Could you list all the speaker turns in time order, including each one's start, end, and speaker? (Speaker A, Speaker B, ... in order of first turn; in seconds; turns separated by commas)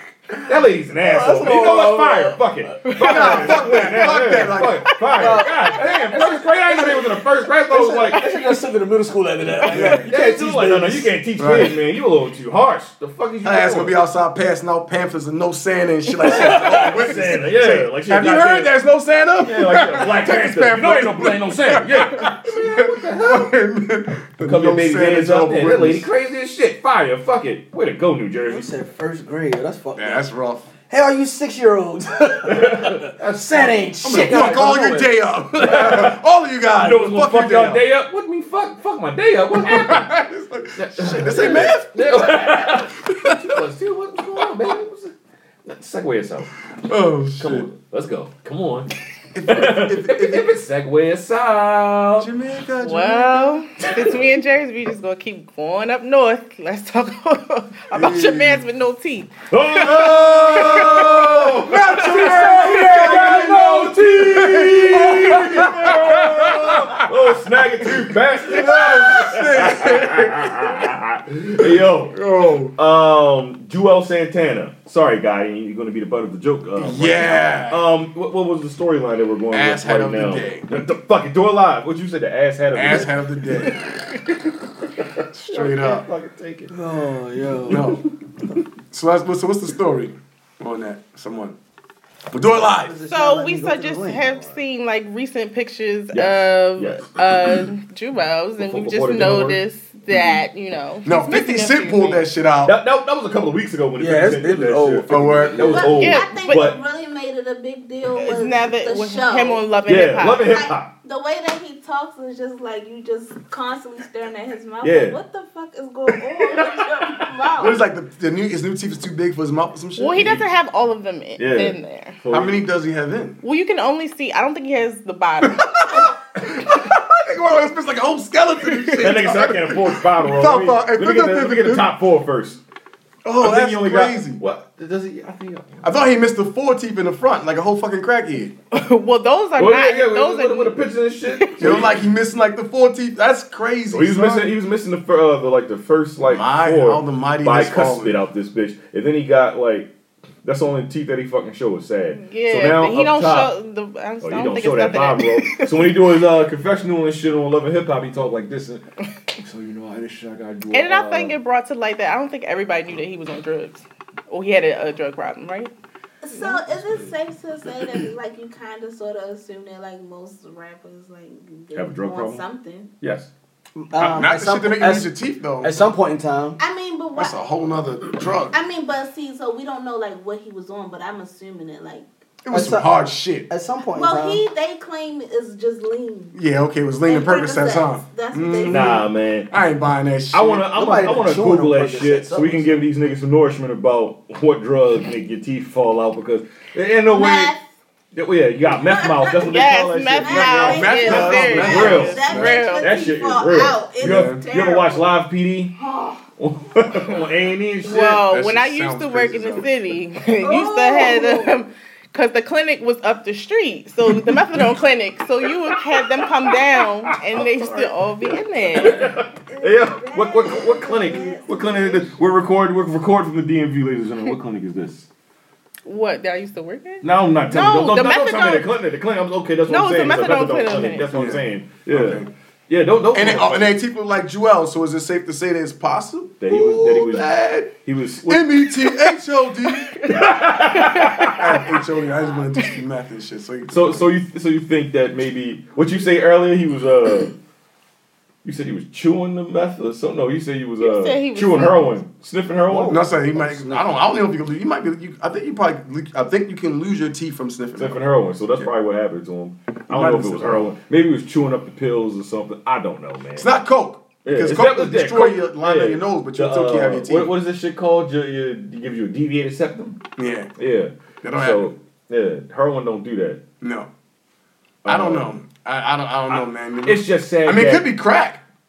Speaker A: 0.5-8.2, Speaker B: 1.0-3.1, Speaker C: 2.8-3.5, Speaker D: 3.0-4.8, Speaker C: 4.9-5.8, Speaker B: 5.1-7.1, Speaker B: 7.7-11.1, Speaker D: 9.7-10.1, Speaker A: 9.8-13.9, Speaker D: 11.4-11.8, Speaker D: 13.4-26.1, Speaker A: 16.2-18.8, Speaker B: 16.4-16.8, Speaker A: 19.4-23.6, Speaker A: 24.4-28.7, Speaker B: 28.4-30.3, Speaker D: 29.9-30.7, Speaker B: 30.9-34.7, Speaker A: 32.5-36.2, Speaker D: 34.0-37.8, Speaker A: 36.7-40.2, Speaker D: 39.5-43.4, Speaker A: 40.8-45.1, Speaker A: 45.6-46.5, Speaker D: 46.9-47.7, Speaker A: 47.3-48.9, Speaker D: 49.3-50.5, Speaker A: 49.5-52.3, Speaker D: 52.2-53.6, Speaker C: 52.8-61.1, Speaker D: 57.9-58.6, Speaker A: 59.5-72.2, Speaker D: 60.5-67.1, Speaker C: 62.3-62.6, Speaker D: 67.8-70.9, Speaker D: 71.6-72.7, Speaker A: 72.8-84.3, Speaker D: 76.8-77.8, Speaker D: 79.5-80.7, Speaker D: 82.7-83.9, Speaker D: 85.3-86.1, Speaker A: 85.5-86.7, Speaker B: 86.7-88.0, Speaker A: 87.7-88.0, Speaker D: 87.7-88.0, Speaker D: 88.9-91.6, Speaker D: 92.3-93.0, Speaker B: 92.5-94.6, Speaker C: 93.0-102.3, Speaker A: 96.1-97.6, Speaker A: 98.6-99.6, Speaker D: 101.0-102.7, Speaker A: 102.6-106.8, Speaker B: 104.0-105.8, Speaker D: 105.1-105.9, Speaker E: 105.6-117.8, Speaker C: 105.8-106.7, Speaker C: 108.2-110.6, Speaker A: 109.9-110.9, Speaker A: 114.8-115.2, Speaker A: 116.4-117.3, Speaker D: 117.6-120.4, Speaker C: 120.0-122.2, Speaker A: 120.2-120.5, Speaker A: 121.4-122.6, Speaker D: 122.3-123.4, Speaker C: 123.4-126.1, Speaker D: 125.5-131.9, Speaker C: 128.7-129.1, Speaker A: 129.0-132.6, Speaker D: 133.2-134.4, Speaker A: 133.4-136.0, Speaker D: 135.8-138.6, Speaker C: 138.7-140.8, Speaker A: 139.6-142.1, Speaker C: 141.3-141.8, Speaker D: 141.6-144.5, Speaker A: 143.9-149.9, Speaker D: 146.2-148.2, Speaker A: 150.4-153.5, Speaker C: 152.1-156.1, Speaker A: 154.2-158.8, Speaker A: 159.4-161.4, Speaker C: 160.7-165.7, Speaker E: 166.2-172.9, Speaker A: 171.7-172.4, Speaker A: 173.0-173.3, Speaker B: 173.8-176.6, Speaker D: 173.9-175.9, Speaker E: 176.6-177.4, Speaker D: 177.1-178.6, Speaker E: 178.5-182.1, Speaker D: 182.4-183.5, Speaker B: 182.5-184.4, Speaker E: 183.9-186.4, Speaker D: 186.3-190.7, Speaker E: 187.1-189.0, Speaker A: 188.7-189.5, Speaker A: 190.3-197.6, Speaker B: 190.7-192.9, Speaker E: 197.1-197.7, Speaker A: 198.1-205.7, Speaker E: 198.7-205.2, Speaker C: 199.4-202.9, Speaker D: 200.6-202.7, Speaker D: 204.0-204.4, Speaker E: 205.7-206.2, Speaker A: 206.4-208.2, Speaker C: 207.8-219.1, Speaker D: 207.9-209.8, Speaker E: 210.4-211.6, Speaker A: 214.1-214.6, Speaker A: 215.7-225.1, Speaker E: 218.9-222.2, Speaker C: 225.8-228.7, Speaker A: 227.0-233.7, Speaker C: 229.7-231.1, Speaker D: 231.1-232.3, Speaker D: 233.1-237.7, Speaker A: 236.4-238.6, Speaker D: 238.3-240.0, Speaker A: 240.1-241.4, Speaker C: 240.7-241.4, Speaker D: 241.3-244.1, Speaker A: 243.7-247.3, Speaker A: 248.4-253.0, Speaker C: 250.8-252.0, Speaker B: 252.7-254.0, Speaker D: 252.8-258.0, Speaker A: 257.8-263.5, Speaker D: 259.9-260.7, Speaker D: 263.4-267.3, Speaker A: 264.2-270.0, Speaker D: 270.2-270.5, Speaker A: 270.6-273.4, Speaker D: 271.2-271.7, Speaker D: 273.6-273.9, Speaker A: 274.8-275.3, Speaker D: 274.8-278.4, Speaker A: 276.3-277.9